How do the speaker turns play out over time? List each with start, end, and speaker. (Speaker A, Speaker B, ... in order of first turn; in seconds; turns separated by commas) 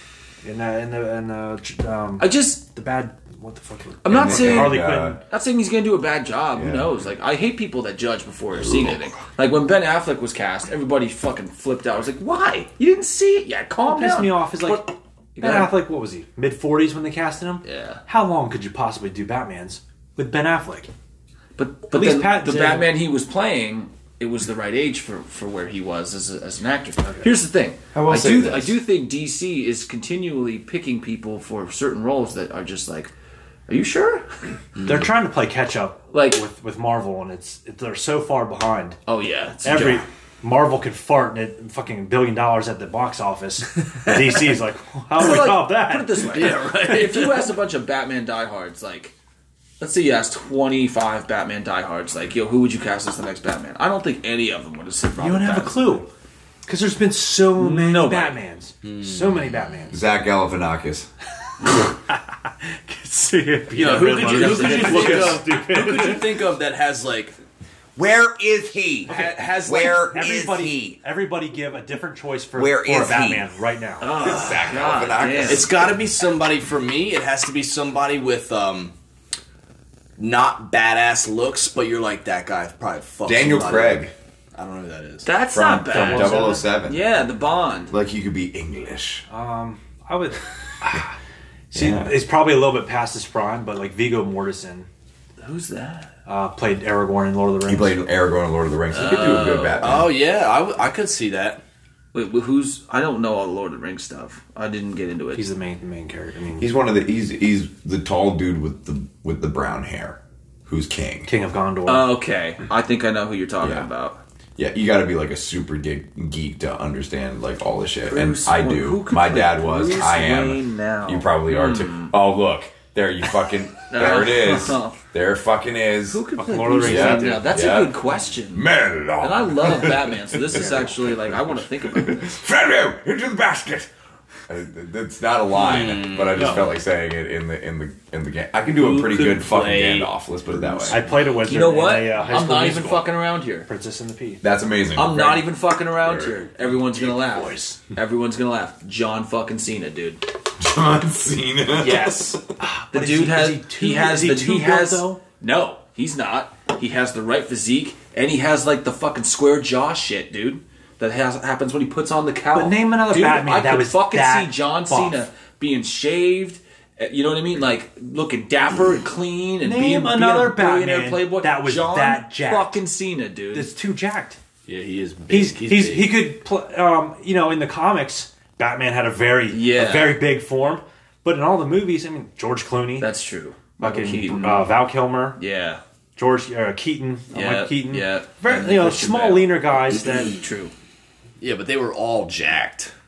Speaker A: 0.4-5.2, Speaker B: 2.2-2.6, Speaker B: 4.0-15.8, Speaker C: 4.1-5.2, Speaker C: 6.5-7.0, Speaker A: 13.8-20.9, Speaker B: 17.6-18.0, Speaker B: 21.6-33.1, Speaker A: 21.9-22.9, Speaker A: 27.0-27.3, Speaker C: 27.9-28.8, Speaker B: 33.7-34.3, Speaker D: 34.8-35.1, Speaker A: 34.8-39.0, Speaker B: 36.1-36.4, Speaker B: 39.1-40.0, Speaker A: 39.6-46.8, Speaker D: 44.0-44.4, Speaker B: 45.1-49.1, Speaker D: 46.3-47.4, Speaker B: 49.8-56.0, Speaker A: 55.2-56.1, Speaker A: 56.6-60.0, Speaker B: 57.5-58.4, Speaker D: 58.8-59.5, Speaker C: 59.9-61.1, Speaker A: 61.8-66.4, Speaker D: 63.7-67.3, Speaker B: 64.0-65.4, Speaker C: 68.0-71.0, Speaker D: 69.1-70.1, Speaker A: 69.1-74.1, Speaker C: 72.5-73.5, Speaker B: 74.0-75.7, Speaker C: 74.1-75.9, Speaker D: 75.5-78.9, Speaker D: 80.2-85.2, Speaker C: 83.2-84.1, Speaker B: 85.2-87.9, Speaker C: 85.5-87.1, Speaker A: 85.9-86.7, Speaker C: 87.9-89.2, Speaker A: 89.3-91.2, Speaker A: 91.7-94.9, Speaker C: 91.7-92.2, Speaker B: 95.4-96.1, Speaker A: 96.2-98.0, Speaker C: 97.7-100.1, Speaker B: 98.9-100.0, Speaker D: 99.8-101.6, Speaker B: 102.1-105.4, Speaker A: 105.3-106.7, Speaker C: 106.6-111.3, Speaker A: 111.2-112.1, Speaker B: 111.9-114.2, Speaker C: 113.6-113.9, Speaker C: 114.6-126.2, Speaker B: 118.1-122.1, Speaker B: 123.9-125.0, Speaker B: 126.1-132.3, Speaker A: 126.4-127.7, Speaker C: 126.8-128.0, Speaker C: 128.5-133.9, Speaker C: 134.5-141.0, Speaker D: 135.5-136.7, Speaker A: 136.3-136.7, Speaker D: 138.7-141.0, Speaker A: 140.9-144.4, Speaker B: 141.1-143.7, Speaker C: 144.4-145.4, Speaker B: 144.9-150.2, Speaker C: 146.0-146.3, Speaker D: 147.0-147.7, Speaker C: 150.6-152.4, Speaker D: 151.8-152.4, Speaker A: 152.6-155.2, Speaker B: 152.9-173.7, Speaker A: 162.5-165.2, Speaker A: 169.6-172.8, Speaker A: 173.5-174.4, Speaker D: 174.7-176.2, Speaker A: 175.3-183.1, Speaker B: 179.5-180.2, Speaker B: 183.0-184.8, Speaker A: 183.8-185.4, Speaker B: 185.4-185.8, Speaker A: 186.1-190.3, Speaker B: 187.3-190.7, Speaker D: 191.4-192.9